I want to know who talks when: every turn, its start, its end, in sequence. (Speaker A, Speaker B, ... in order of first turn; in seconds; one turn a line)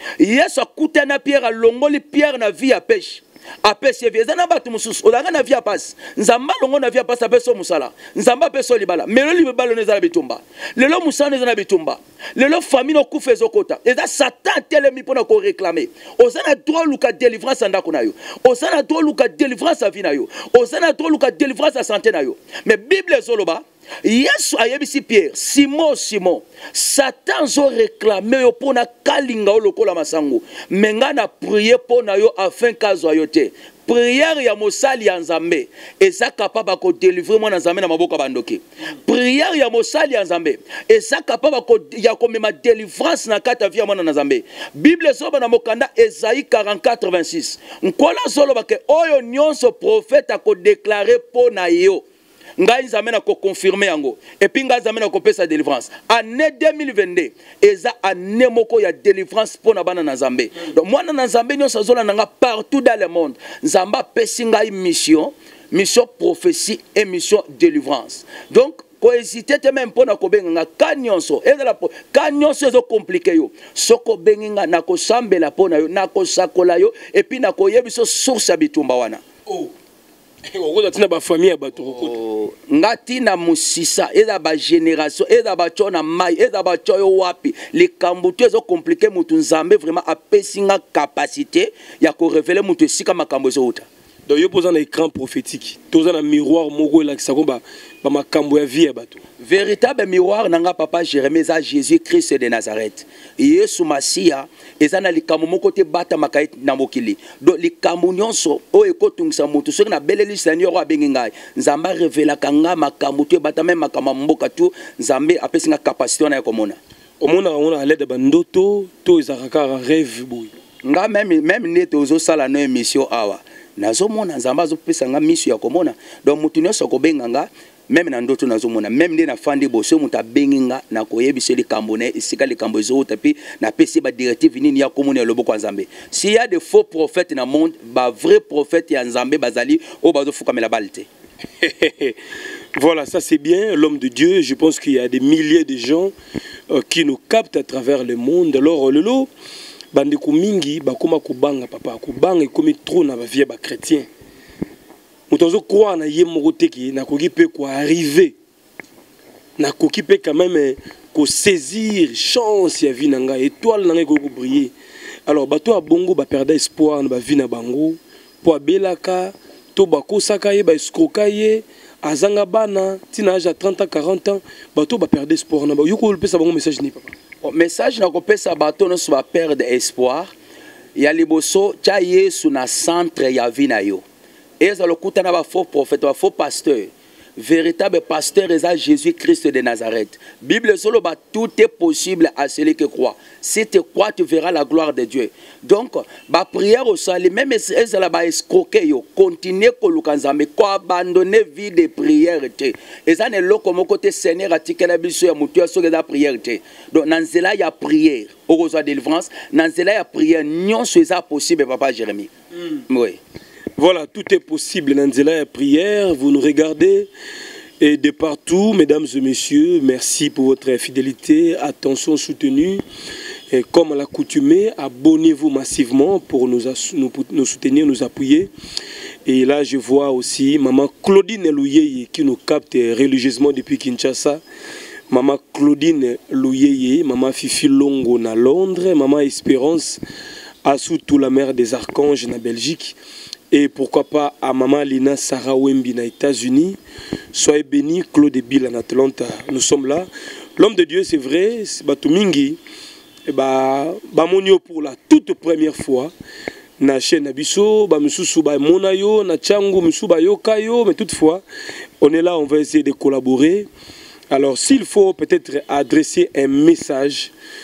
Speaker A: 0.2-52.0
Speaker A: 52.6-79.2
Speaker B: 80.5-82.2
Speaker A: 82.0-93.9
Speaker B: 94.3-99.2
Speaker A: 99.4-116.8
Speaker B: 117.2-120.5
Speaker A: 120.8-141.1
Speaker B: 141.6-142.2
Speaker B: 142.8-146.1
Speaker B: 146.7-149.3
Speaker B: 149.9-154.1
Speaker B: 155.3-158.3
Speaker B: 159.6-164.7
Speaker B: 165.2-177.1
Speaker A: 177.4-180.3
Speaker A: 180.9-184.0
Speaker A: 184.6-212.3
Speaker A: 212.9-213.2
Speaker B: 213.8-217.1
Speaker B: 217.8-222.8
Speaker B: 223.5-228.5
Speaker B: 229.2-234.4
Speaker B: 235.1-240.0
Speaker B: 240.6-243.0
Speaker B: 243.5-246.8
Speaker B: 247.3-252.6
Speaker B: 253.2-256.1
Speaker B: 256.8-261.4
Speaker B: 262.0-263.7
Speaker B: 264.3-267.3